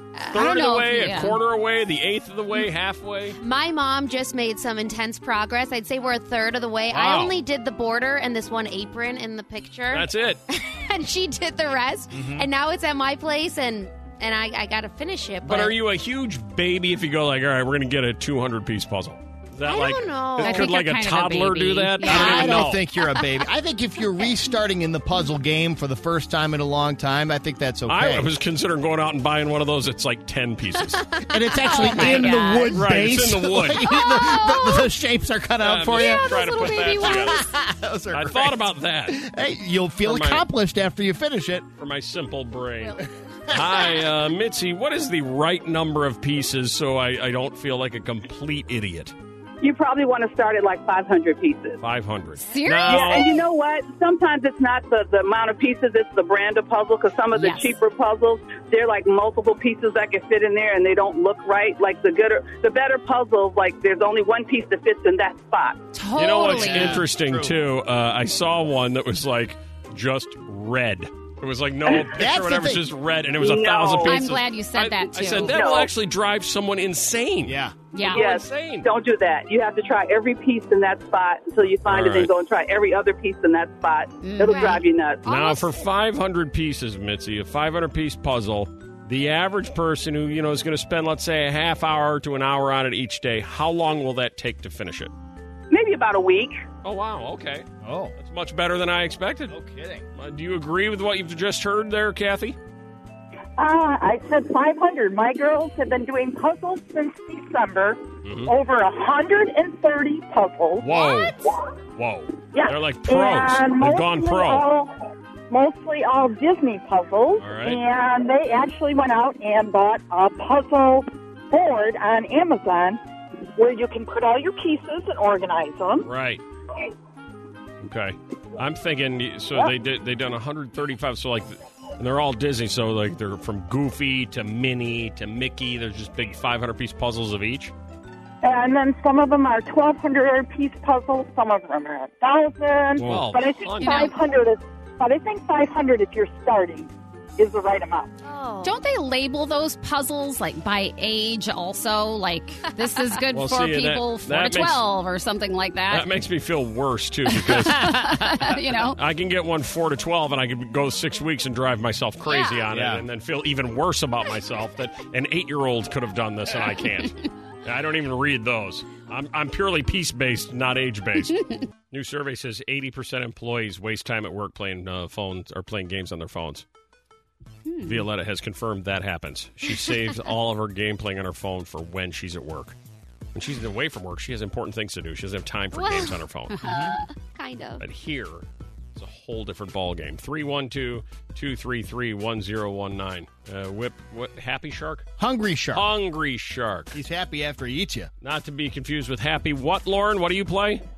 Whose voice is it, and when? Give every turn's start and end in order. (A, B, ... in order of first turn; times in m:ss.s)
0:00.3-0:03.4 A
0:00.3-0:01.4 B
0:03.4-0:15.7 C
0:06.9-0:07.4 A
0:09.9-0:10.4 A
0:12.1-0:12.5 D
0:15.4-0:22.8 A
0:19.6-0:20.7 C
0:20.4-0:22.8 B
0:22.0-0:28.3 D
0:27.9-0:31.0 A
0:31.1-0:31.9 C
0:31.3-0:36.3 D
0:31.6-0:32.8 B
0:32.7-0:33.8 A
0:34.2-0:34.8 B
0:35.6-0:37.4 A
0:35.9-0:37.5 B
0:37.0-0:41.7 D
0:38.1-0:39.2 A
0:40.0-0:40.4 A
0:41.8-0:43.0 A
0:43.5-0:49.1 A
0:49.6-0:51.8 E
0:51.8-0:53.4 A
0:52.4-0:53.3 B
0:52.8-1:05.8 E
0:57.4-0:57.8 B
1:05.9-1:07.0 B
1:06.2-1:18.9 A
1:06.5-1:07.5 D
1:11.9-1:12.8 D
1:13.4-1:14.3 E
1:14.0-1:15.5 B
1:15.4-1:15.9 E
1:17.4-1:17.7 D
1:17.9-1:18.3 B
1:18.1-1:25.2 E
1:21.8-1:22.3 A
1:24.2-1:24.8 B
1:24.4-1:25.8 C
1:25.2-1:35.1 A
1:35.7-1:36.6 E
1:36.8-1:39.6 A
1:37.8-1:38.1 D
1:39.5-1:40.0 D
1:40.2-1:42.6 A
1:43.6-1:50.9 F
1:48.2-1:48.5 A
1:50.8-1:51.4 A
1:50.9-1:51.3 B
1:52.0-1:54.7 A
1:52.5-1:54.9 F
1:55.5-2:03.0 F
1:57.4-1:57.8 A
2:03.6-2:06.1 F
2:06.0-2:06.4 A
2:07.8-2:17.7 A
2:18.4-2:28.1 F
2:23.0-2:24.2 A
2:23.8-2:24.2 B
2:28.2-2:28.8 C
2:28.6-2:36.1 B
2:33.3-2:34.8 A
2:35.9-2:56.6 A
2:37.3-2:39.0 B
2:42.2-2:42.6 C
2:42.7-2:43.0 D
2:57.6-2:58.0 B
2:57.8-3:02.8 A
3:03.3-3:06.6 A
3:05.7-3:06.2 C
3:06.6-3:07.0 D
3:06.7-3:07.8 C
3:07.8-3:15.1 A
3:15.2-3:15.9 D
3:15.7-3:17.0 A
3:16.9-3:18.1 D
3:18.2-3:20.8 A